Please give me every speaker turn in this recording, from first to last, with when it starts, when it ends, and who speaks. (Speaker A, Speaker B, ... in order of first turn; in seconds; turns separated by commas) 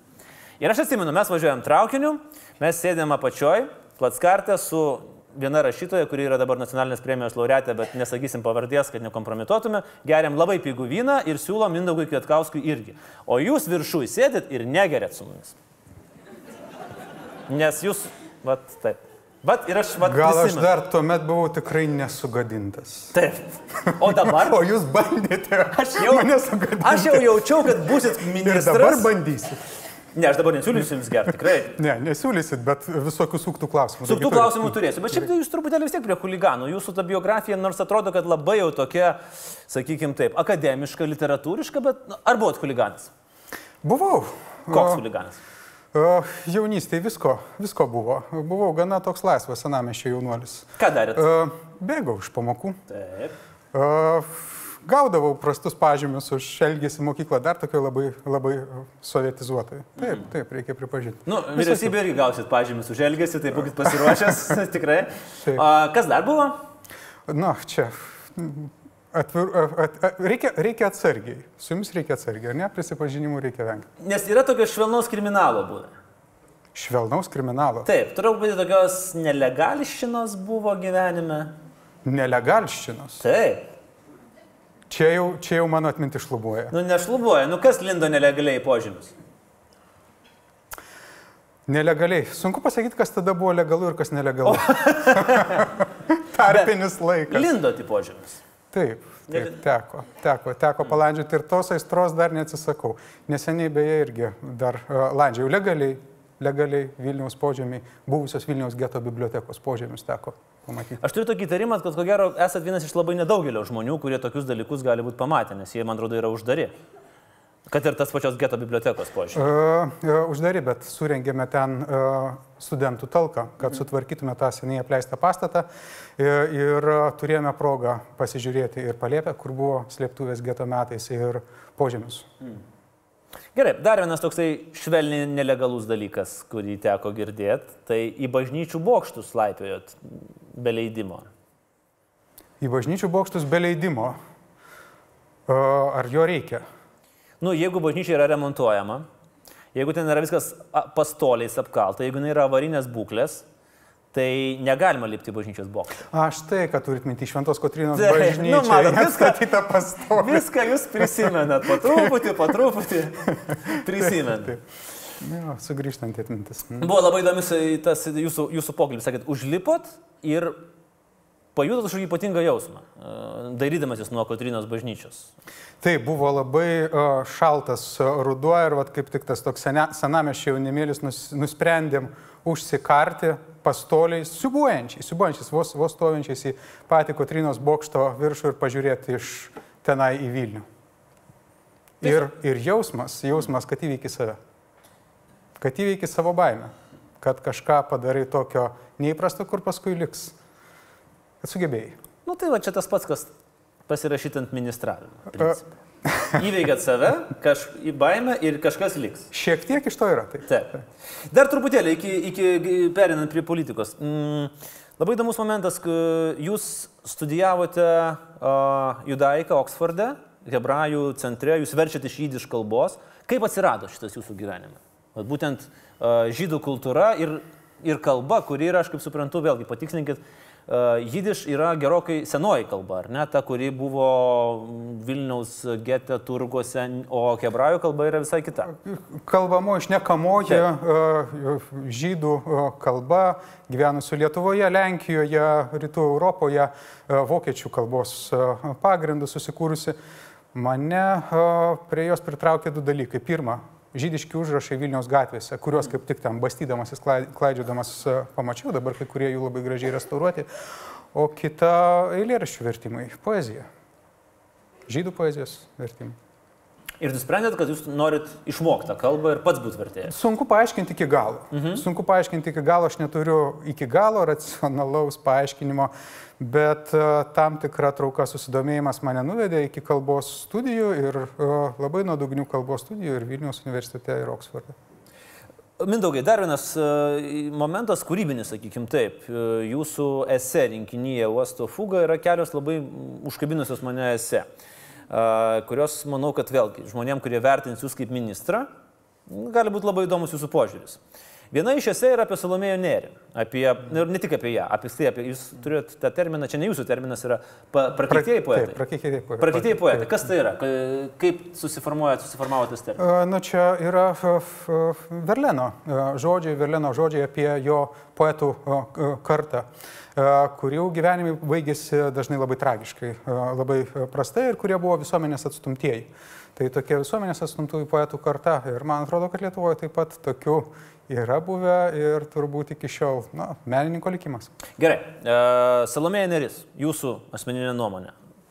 Speaker A: 0.6-15.6, Speaker A: 17.5-20.7, Speaker B: 20.0-23.1, Speaker A: 23.1-24.6, Speaker B: 23.9-29.6, Speaker A: 25.7-29.1, Speaker A: 30.1-31.8, Speaker B: 31.7-34.8, Speaker A: 34.0-43.1, Speaker B: 43.8-45.0, Speaker A: 44.7-45.4, Speaker B: 45.9-52.8, Speaker A: 50.8-51.3, Speaker A: 52.9-53.3, Speaker B: 53.7-61.9, Speaker A: 60.0-60.3, Speaker A: 61.2-66.6, Speaker B: 67.3-73.9, Speaker A: 74.0-75.9, Speaker B: 76.7-77.9, Speaker A: 77.8-81.5, Speaker B: 82.0-83.2, Speaker A: 83.2-83.7, Speaker B: 84.9-86.7, Speaker A: 86.7-89.1, Speaker B: 91.7-97.5, Speaker A: 94.4-95.8, Speaker A: 96.4-96.7, Speaker A: 97.3-98.4, Speaker B: 98.7-111.0, Speaker A: 99.3-99.5, Speaker A: 111.0-116.7, Speaker A: 117.7-119.5, Speaker B: 119.3-125.7, Speaker B: 126.2-132.3, Speaker A: 133.5-140.0, Speaker A: 140.5-141.3, Speaker B: 142.6-144.2, Speaker B: 145.5-146.6, Speaker A: 147.4-149.1, Speaker A: 149.7-153.4, Speaker A: 154.1-156.0, Speaker B: 156.1-162.3, Speaker A: 157.9-159.4, Speaker A: 160.1-164.6, Speaker B: 163.5-164.5, Speaker B: 165.2-166.9, Speaker A: 166.8-170.6, Speaker A: 171.5-175.3, Speaker B: 175.8-190.7, Speaker B: 192.0-194.4, Speaker B: 195.6-200.3, Speaker B: 201.4-202.0, Speaker A: 202.2-203.3, Speaker A: 203.9-205.8, Speaker B: 206.1-206.4, Speaker A: 206.3-209.3, Speaker B: 209.3-210.5, Speaker A: 210.5-238.7, Speaker B: 238.7-249.9, Speaker B: 250.5-260.5, Speaker B: 261.1-263.6, Speaker B: 264.9-266.2, Speaker A: 267.0-270.1, Speaker B: 270.1-284.8, Speaker A: 271.5-271.8, Speaker A: 285.8-294.4, Speaker A: 295.1-298.7, Speaker A: 299.3-301.0, Speaker A: 301.5-308.8, Speaker B: 308.1-310.2, Speaker A: 309.4-313.0, Speaker B: 313.0-334.5, Speaker A: 334.8-338.1